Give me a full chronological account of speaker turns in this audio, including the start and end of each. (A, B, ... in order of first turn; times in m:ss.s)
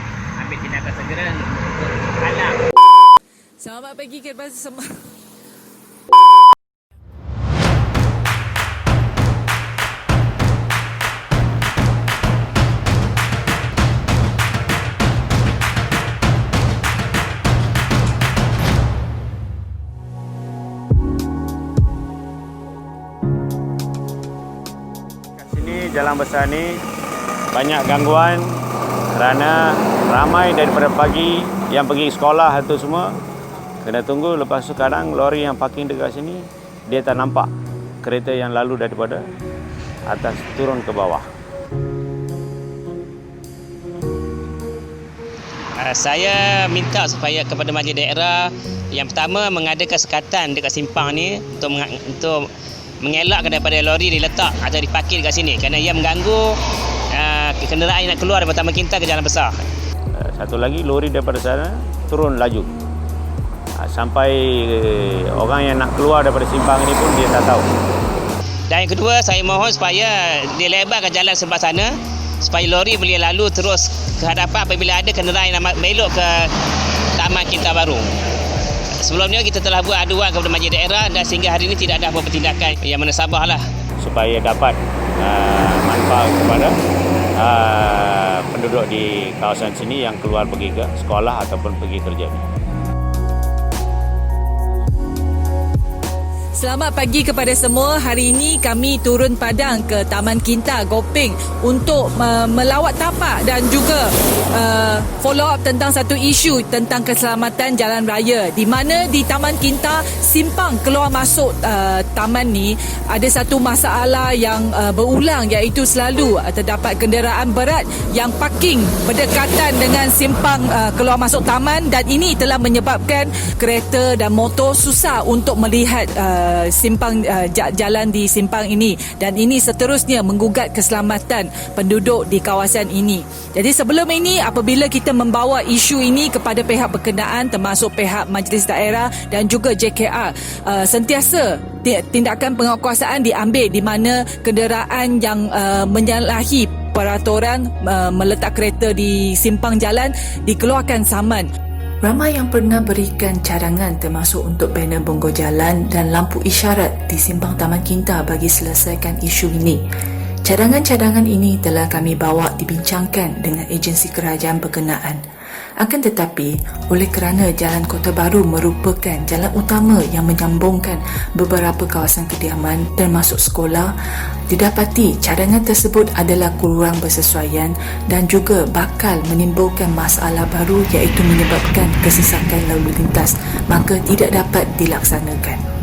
0:00.4-0:02.6 A
0:03.6-0:05.0 B
0:25.4-0:26.7 C
0:27.5-0:28.4 C
0:29.1-0:33.1 C
0:33.8-0:37.5 C
0:38.0-0:39.2 C
0:40.1-0:41.2 C
0:45.8-0:52.5 A
0:53.0-0:56.6 A
0:57.1-0:59.6 A
1:00.2-1:02.7 C
1:03.8-1:07.7 C
1:08.7-1:16.5 A
1:17.2-1:18.1 A
1:19.0-1:23.6 A
1:24.0-1:26.7 C
1:27.4-1:32.4 C
1:36.6-2:31.5 B
2:32.0-2:39.8 D
2:40.4-2:45.2 D
2:45.8-2:53.9 D
2:54.5-3:05.6 D